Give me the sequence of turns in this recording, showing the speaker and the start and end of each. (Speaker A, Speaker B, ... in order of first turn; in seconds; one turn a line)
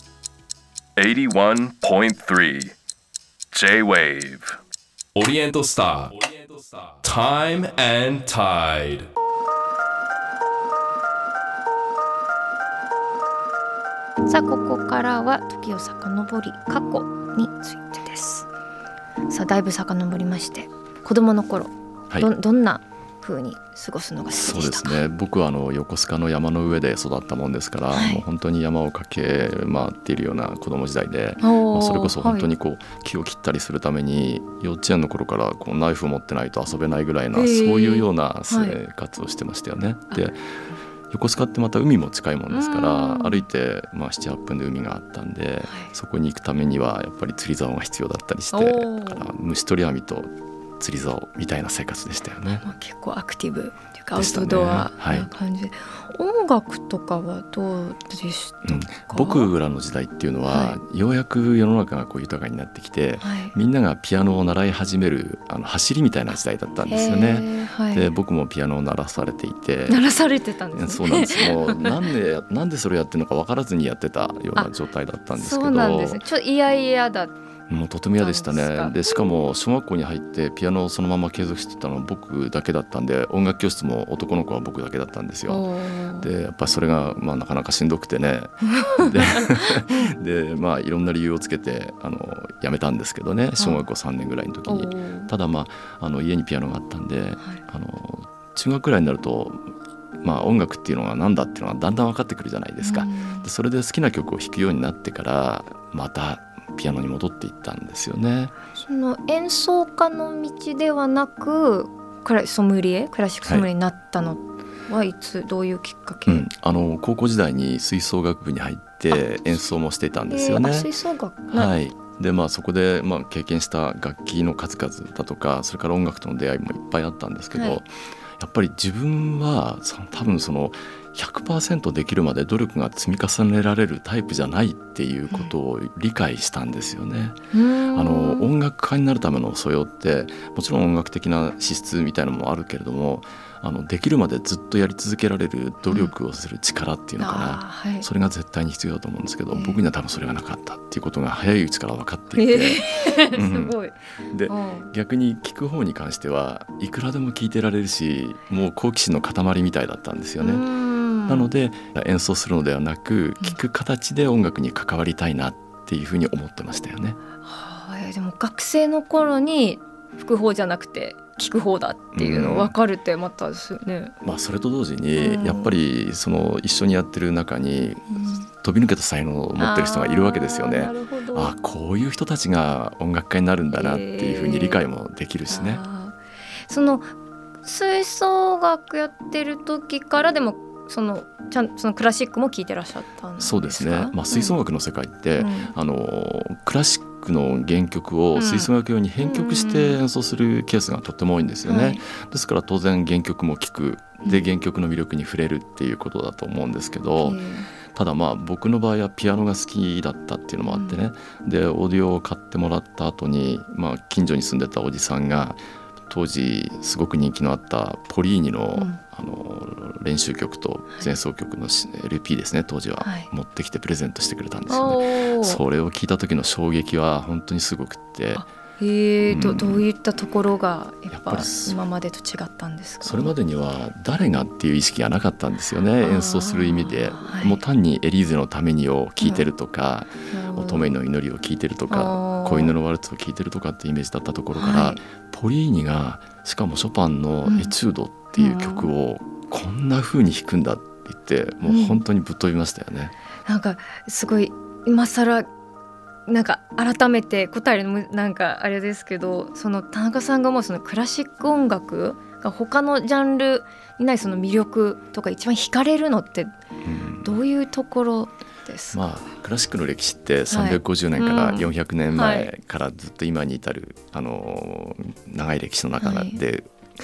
Speaker A: 1.0-2.7
Speaker A: 3.5-4.6
Speaker A: 5.1-9.1
Speaker B: 14.3-18.5
Speaker B: 19.3-25.0
Speaker C: 24.3-40.4
Speaker B: 27.9-28.2
Speaker B: 31.4-32.5
Speaker B: 37.3-38.8
Speaker C: 41.1-52.6
Speaker B: 42.5-43.4
Speaker B: 45.6-45.9
Speaker B: 48.5-49.2
Speaker B: 52.6-59.5
Speaker C: 54.1-55.3
Speaker C: 58.6-70.0
Speaker B: 60.5-60.8
Speaker B: 63.2-63.5
Speaker B: 66.9-68.1
Speaker B: 69.9-71.9
Speaker C: 70.7-76.2
Speaker B: 75.3-77.4
Speaker C: 77.7-85.7
Speaker B: 78.2-78.9
Speaker B: 85.5-86.3
Speaker C: 86.2-108.5
Speaker B: 88.7-90.1
Speaker B: 93.6-93.9
Speaker B: 94.7-95.3
Speaker B: 102.8-103.5
Speaker B: 108.7-116.5
Speaker C: 116.2-120.9
Speaker B: 120.3-121.7
Speaker C: 121.5-137.4
Speaker B: 127.5-127.8
Speaker B: 137.5-138.5
Speaker C: 137.9-153.8
Speaker B: 147.2-148.1
Speaker B: 149.5-149.8
Speaker B: 152.3-154.0
Speaker C: 154.3-160.6
Speaker B: 154.5-154.9
Speaker B: 160.4-161.5
Speaker C: 161.3-167.2
Speaker B: 167.4-174.1
Speaker C: 172.1-172.7
Speaker C: 174.2-185.8
Speaker B: 175.2-175.8
Speaker B: 178.1-178.5
Speaker B: 179.6-181.5
Speaker B: 183.7-184.8
Speaker B: 185.5-187.1
Speaker B: 187.6-194.5
Speaker C: 193.4-207.4
Speaker B: 195.4-195.7
Speaker B: 198.3-200.0
Speaker B: 201.7-202.0
Speaker B: 207.2-207.7
Speaker C: 207.9-228.4
Speaker B: 210.7-211.0
Speaker B: 218.8-219.0
Speaker B: 223.0-223.3
Speaker B: 224.7-225.6
Speaker B: 228.3-233.3
Speaker C: 229.3-229.8
Speaker C: 231.1-231.8
Speaker C: 233.0-253.1
Speaker B: 236.0-237.6
Speaker B: 239.2-239.4
Speaker B: 240.3-240.9
Speaker B: 241.9-242.7
Speaker B: 244.5-245.0
Speaker B: 247.4-247.7
Speaker B: 248.3-248.9
Speaker B: 251.6-252.0
Speaker B: 253.4-255.5
Speaker B: 256.3-266.5
Speaker C: 266.8-267.4
Speaker B: 267.2-269.0
Speaker C: 268.9-276.8
Speaker B: 270.5-272.5
Speaker B: 276.0-276.4